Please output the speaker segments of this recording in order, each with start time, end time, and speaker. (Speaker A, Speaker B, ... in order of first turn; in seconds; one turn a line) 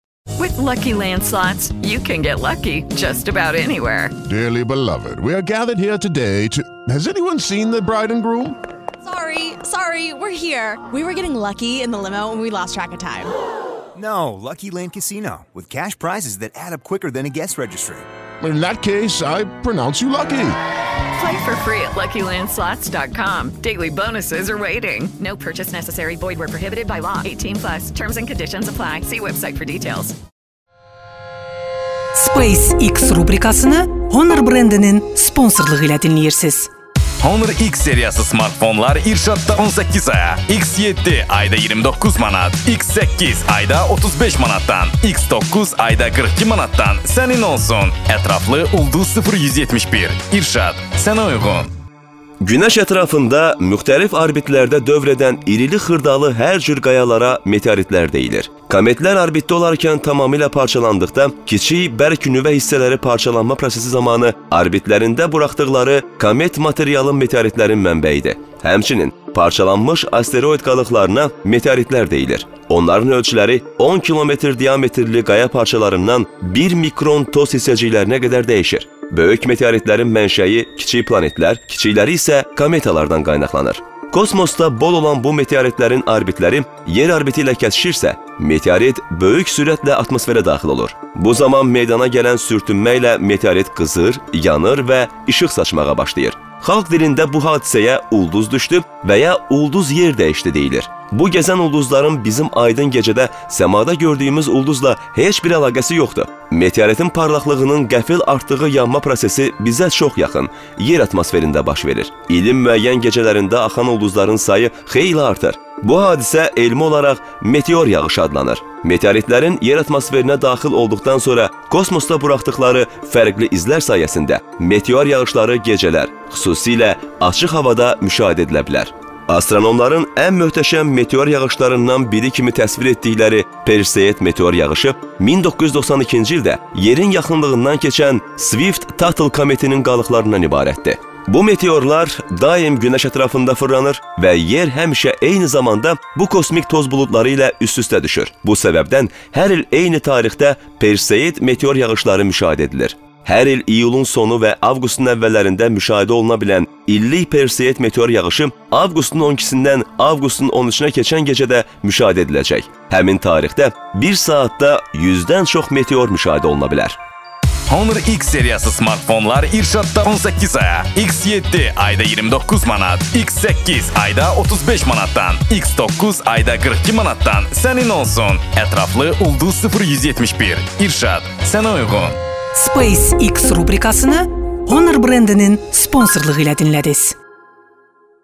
Speaker A: 0.4-4.1
Speaker B: 4.2-8.6
Speaker C: 9.0-13.3
Speaker D: 13.9-18.1
Speaker B: 18.4-20.6
Speaker A: 21.2-30.1
Speaker E: 32.1-36.7
Speaker F: 37.2-51.7
Speaker G: 52.4-167.0
Speaker F: 167.7-182.2
Speaker E: 182.5-187.2